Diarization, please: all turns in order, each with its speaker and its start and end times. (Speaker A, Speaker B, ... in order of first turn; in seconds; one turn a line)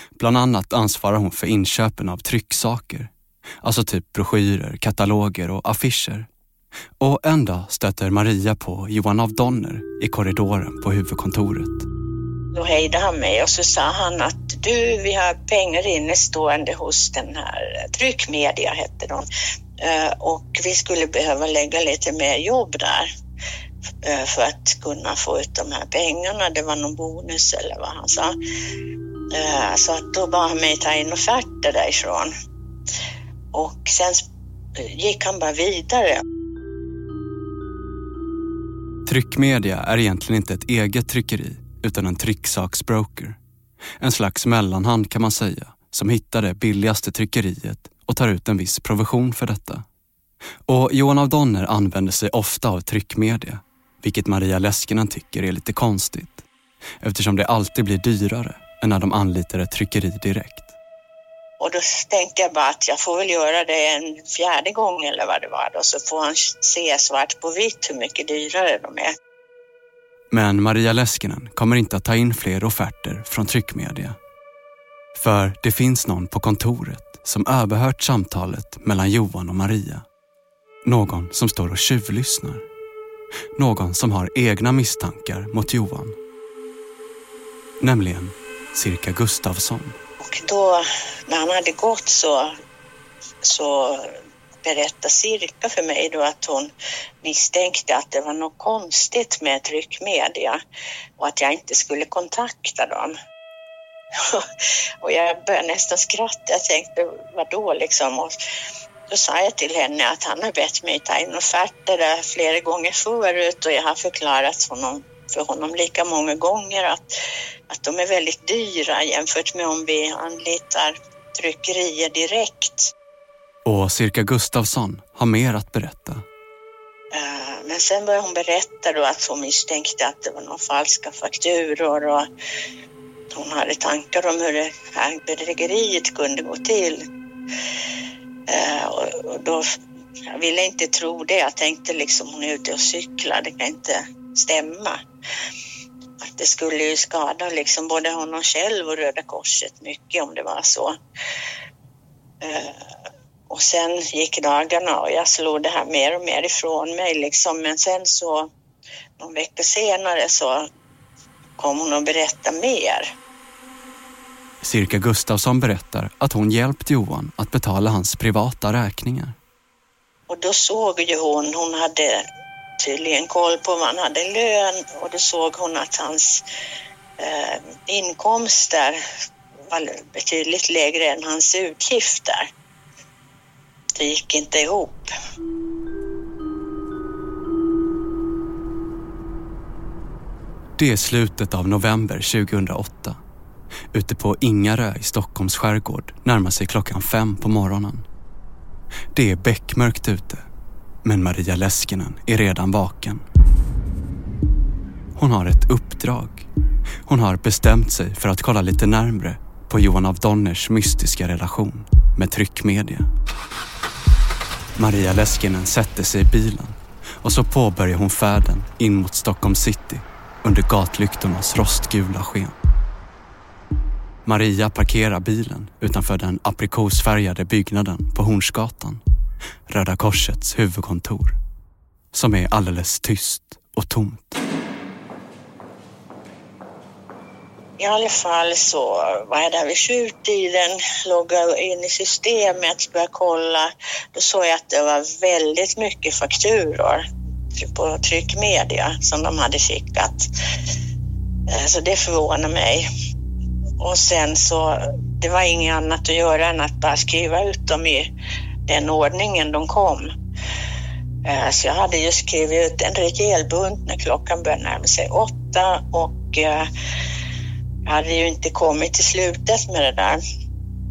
Speaker A: 0.2-3.1
Speaker A: 3.6-6.3
Speaker A: 7.0-11.9
Speaker B: 12.5-19.3
Speaker B: 19.8-23.1
Speaker B: 24.0-28.4
Speaker B: 29.3-32.3
Speaker B: 33.5-36.2
Speaker A: 39.1-43.4
Speaker A: 44.0-49.9
Speaker A: 50.7-56.5
Speaker A: 57.0-60.7
Speaker B: 61.6-69.1
Speaker A: 70.3-74.2
Speaker A: 75.2-80.0
Speaker A: 80.8-82.7
Speaker A: 83.6-86.2
Speaker A: 87.8-90.0
Speaker B: 90.2-92.5
Speaker B: 93.4-100.6
Speaker B: 101.2-103.1
Speaker B: 104.1-104.5
Speaker B: 105.0-108.3
Speaker B: 109.1-117.1
Speaker B: 117.7-122.9
Speaker A: 123.7-126.2
Speaker B: 127.1-132.3
Speaker B: 133.3-137.1
Speaker B: 138.5-139.7
Speaker B: 140.3-145.0
Speaker B: 146.2-151.0
Speaker B: 152.4-152.9
Speaker B: 153.5-158.5
Speaker B: 159.2-160.7
Speaker B: 161.6-163.1
Speaker A: 164.6-169.4
Speaker B: 170.3-172.2
Speaker B: 172.8-176.4
Speaker B: 177.2-179.0
Speaker B: 179.7-182.5
Speaker B: 184.0-185.1
Speaker A: 190.8-193.2
Speaker A: 193.9-198.1
Speaker A: 199.1-200.4
Speaker A: 201.0-203.2
Speaker A: 205.2-206.5
Speaker A: 207.1-213.1
Speaker A: 214.8-222.6
Speaker A: 224.2-229.0
Speaker A: 229.7-231.4
Speaker A: 232.1-234.4
Speaker B: 237.8-247.0
Speaker B: 247.6-250.3
Speaker B: 251.5-252.9
Speaker B: 253.8-258.1
Speaker B: 258.7-260.1
Speaker B: 261.2-266.7
Speaker B: 267.9-270.2